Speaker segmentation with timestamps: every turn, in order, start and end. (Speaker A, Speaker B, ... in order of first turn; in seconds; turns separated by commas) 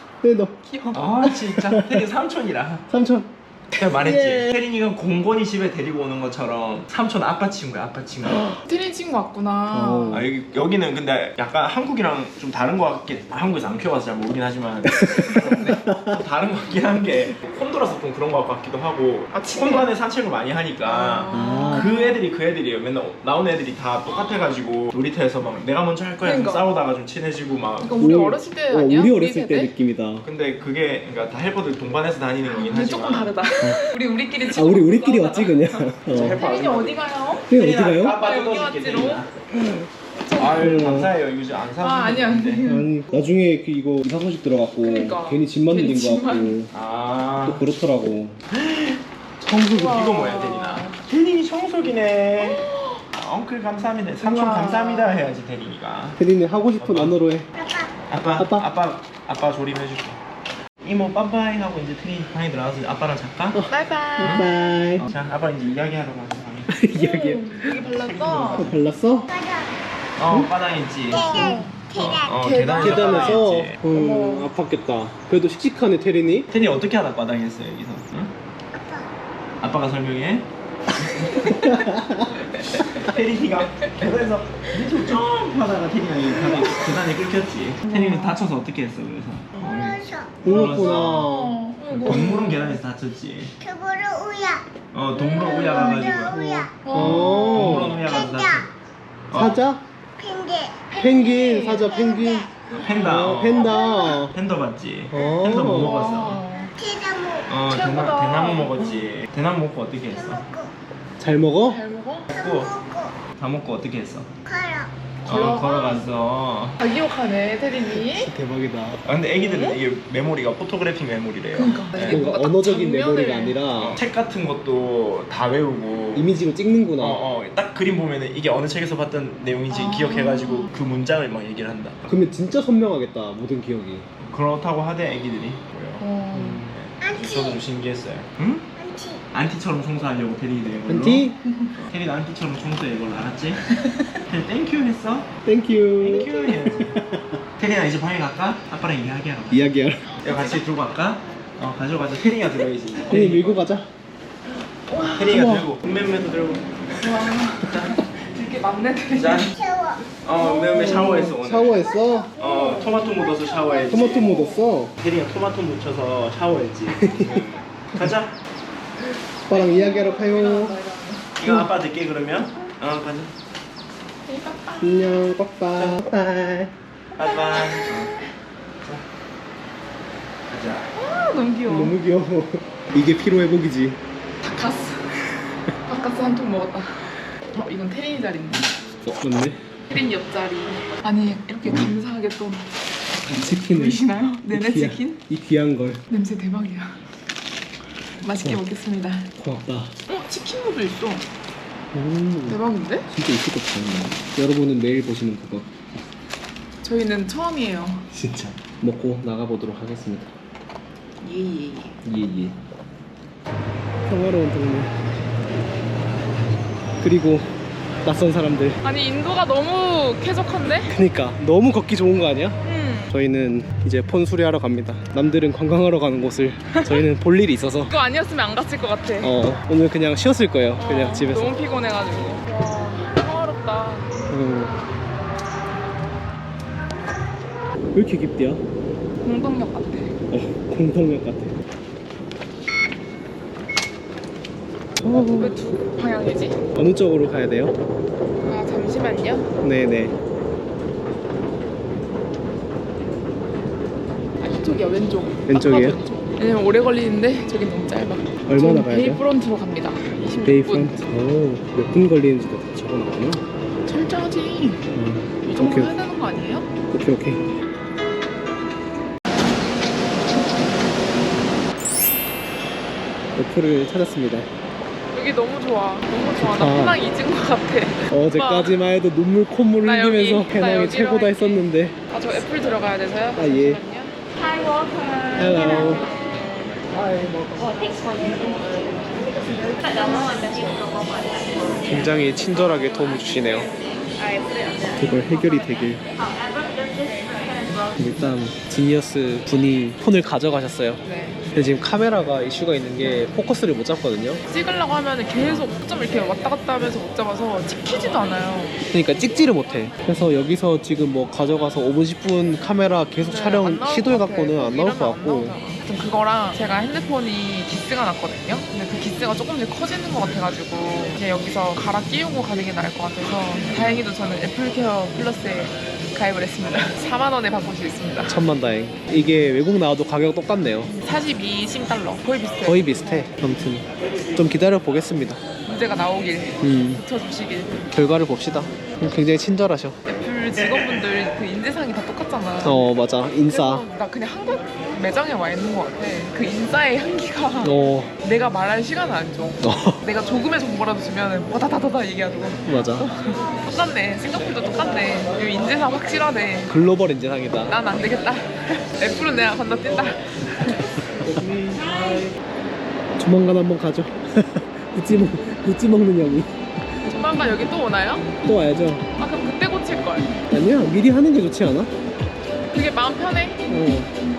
Speaker A: 0.2-0.6, Speaker B: 0.7-1.0, Speaker C: 0.9-2.9, Speaker A: 1.2-2.0, Speaker A: 2.9-4.5, Speaker C: 3.7-8.6, Speaker A: 8.2-8.6, Speaker B: 8.7-10.3, Speaker A: 9.7-10.3, Speaker C: 10.1-28.0, Speaker A: 15.1-16.2, Speaker B: 15.3-15.8, Speaker B: 19.3-19.9, Speaker B: 20.8-22.2, Speaker A: 21.3-21.9, Speaker B: 26.2-26.7, Speaker B: 27.8-29.7, Speaker A: 28.0-30.3, Speaker C: 30.2-33.3, Speaker B: 32.5-37.5, Speaker A: 34.4-36.4, Speaker C: 36.1-39.3, Speaker A: 37.5-38.2, Speaker B: 38.2-40.6, Speaker C: 40.4-42.6, Speaker A: 40.5-41.1, Speaker B: 41.8-42.9, Speaker A: 42.6-46.7, Speaker B: 44.8-46.6, Speaker C: 46.7-47.6, Speaker A: 47.4-48.4, Speaker C: 48.5-49.0, Speaker A: 49.4-50.1, Speaker B: 49.7-51.0, Speaker C: 49.8-56.2, Speaker B: 52.4-53.0, Speaker B: 54.2-55.3, Speaker A: 56.2-57.5, Speaker C: 56.8-57.2, Speaker C: 58.1-60.2, Speaker A: 58.3-58.7, Speaker C: 60.8-63.6, Speaker A: 63.5-65.1, Speaker B: 63.7-64.5, Speaker C: 64.2-66.7, Speaker A: 66.7-67.7, Speaker B: 67.0-68.7, Speaker C: 67.7-68.8, Speaker A: 68.5-69.3, Speaker D: 69.4-69.7, Speaker C: 70.2-73.8, Speaker B: 71.2-71.7, Speaker B: 72.3-74.5, Speaker A: 72.8-76.5, Speaker C: 76.5-78.3, Speaker C: 79.6-80.5, Speaker B: 81.2-81.9, Speaker A: 81.5-82.4, Speaker B: 82.5-83.0, Speaker C: 82.8-91.3, Speaker B: 87.9-88.4, Speaker A: 90.4-91.6, Speaker B: 90.5-92.8, Speaker C: 91.9-93.6, Speaker D: 93.6-94.7, Speaker C: 94.9-98.7, Speaker D: 96.0-96.7, Speaker A: 96.3-98.0, Speaker B: 96.8-97.9, Speaker C: 99.3-99.6, Speaker A: 99.3-99.8, Speaker D: 100.2-100.8, Speaker B: 100.9-102.0, Speaker A: 101.0-104.3, Speaker B: 102.7-103.0, Speaker C: 102.8-106.4, Speaker A: 105.1-106.0, Speaker B: 105.8-106.7, Speaker D: 106.8-107.4, Speaker C: 107.4-110.5, Speaker B: 107.7-108.8, Speaker D: 110.3-110.7, Speaker A: 111.2-111.8, Speaker B: 111.7-112.3, Speaker C: 112.3-112.9, Speaker D: 112.7-113.1, Speaker C: 113.4-114.3, Speaker D: 114.5-114.9, Speaker C: 115.3-116.8, Speaker B: 115.3-116.1, Speaker B: 116.8-118.3, Speaker A: 117.9-119.0, Speaker C: 119.0-122.3, Speaker B: 119.4-119.8, Speaker B: 121.5-123.6, Speaker A: 122.0-124.0, Speaker C: 123.8-126.3, Speaker A: 126.1-127.2, Speaker C: 127.0-132.1, Speaker B: 129.7-130.7, Speaker A: 132.1-134.1, Speaker C: 134.2-136.1, Speaker B: 136.0-136.6, Speaker A: 136.3-136.7, Speaker C: 136.7-138.7, Speaker D: 138.8-139.2, Speaker C: 139.3-141.3, Speaker A: 140.9-141.4, Speaker C: 141.8-143.7, Speaker C: 144.3-145.3, Speaker A: 145.4-147.4, Speaker C: 146.0-147.0, Speaker C: 147.6-149.6, Speaker A: 149.5-150.1, Speaker B: 150.2-150.6, Speaker C: 150.2-153.6, Speaker A: 153.1-153.9, Speaker B: 154.9-155.7, Speaker C: 155.2-157.9, Speaker B: 157.0-159.8, Speaker C: 159.2-159.5, Speaker C: 160.2-164.4, Speaker B: 160.4-161.3, Speaker A: 160.7-162.3, Speaker A: 163.9-164.9, Speaker B: 164.0-164.4, Speaker C: 165.0-168.4, Speaker A: 167.0-167.4, Speaker A: 169.5-170.8, Speaker B: 169.5-171.3, Speaker C: 171.4-173.3, Speaker B: 174.3-175.2, Speaker A: 174.8-176.7, Speaker C: 177.2-178.2, Speaker B: 177.5-177.9, Speaker C: 180.5-180.9, Speaker B: 180.9-182.0, Speaker A: 181.7-184.0, Speaker B: 184.4-185.2, Speaker B: 185.9-188.7, Speaker A: 189.1-189.6, Speaker B: 189.9-192.7, Speaker A: 193.3-196.0, Speaker B: 193.4-195.2, Speaker B: 196.1-197.0, Speaker B: 198.2-199.3, Speaker A: 199.4-199.9, Speaker B: 200.1-201.3, Speaker A: 201.9-205.7, Speaker B: 202.5-203.1, Speaker B: 206.8-208.1, Speaker A: 208.1-210.3, Speaker B: 211.2-211.9, Speaker A: 212.1-212.6, Speaker A: 214.1-214.9, Speaker A: 217.0-217.5, Speaker A: 218.0-218.8, Speaker B: 218.8-220.9, Speaker A: 220.9-222.6, Speaker B: 222.6-223.1, Speaker A: 223.1-227.9, Speaker B: 226.7-227.0, Speaker B: 227.9-229.3, Speaker A: 229.2-231.5, Speaker B: 230.8-234.1, Speaker A: 234.3-234.8, Speaker A: 237.9-238.6, Speaker B: 239.2-240.2, Speaker A: 240.3-241.6, Speaker A: 245.0-245.6, Speaker B: 245.3-246.6, Speaker A: 246.7-247.8, Speaker B: 248.4-249.5, Speaker A: 249.6-250.2, Speaker B: 254.4-260.9, Speaker A: 255.5-256.0, Speaker A: 258.5-259.2, Speaker A: 260.4-263.4, Speaker B: 263.9-264.9, Speaker A: 264.9-265.9, Speaker B: 265.4-266.7, Speaker A: 266.9-267.4, Speaker A: 273.4-274.5, Speaker B: 275.1-278.8, Speaker A: 276.4-277.0, Speaker A: 278.1-282.0, Speaker B: 279.8-284.2, Speaker A: 283.4-283.8, Speaker A: 285.4-286.1, Speaker B: 285.5-286.0, Speaker A: 286.9-287.8, Speaker A: 291.8-293.7, Speaker A: 295.0-296.0, Speaker A: 297.9-301.0, Speaker B: 301.1-301.4, Speaker A: 301.5-304.4, Speaker B: 304.5-308.8, Speaker A: 305.4-305.7, Speaker A: 308.9-315.6, Speaker B: 313.2-328.4, Speaker A: 323.6-324.0, Speaker A: 328.2-330.9, Speaker B: 330.9-333.3, Speaker A: 332.6-335.4, Speaker B: 335.7-337.8, Speaker A: 336.6-337.0, Speaker A: 337.9-340.0, Speaker B: 340.1-342.9, Speaker A: 342.6-343.9, Speaker B: 343.4-356.8, Speaker A: 347.6-348.1, Speaker A: 349.6-350.0, Speaker A: 352.6-353.1, Speaker A: 356.7-357.8, Speaker B: 357.7-360.8, Speaker A: 361.1-361.5, Speaker B: 361.9-362.2, Speaker A: 363.2-367.1, Speaker B: 367.1-368.3, Speaker A: 368.4-369.0, Speaker B: 369.2-370.4, Speaker A: 370.5-371.9, Speaker B: 372.7-373.6, Speaker A: 373.7-374.1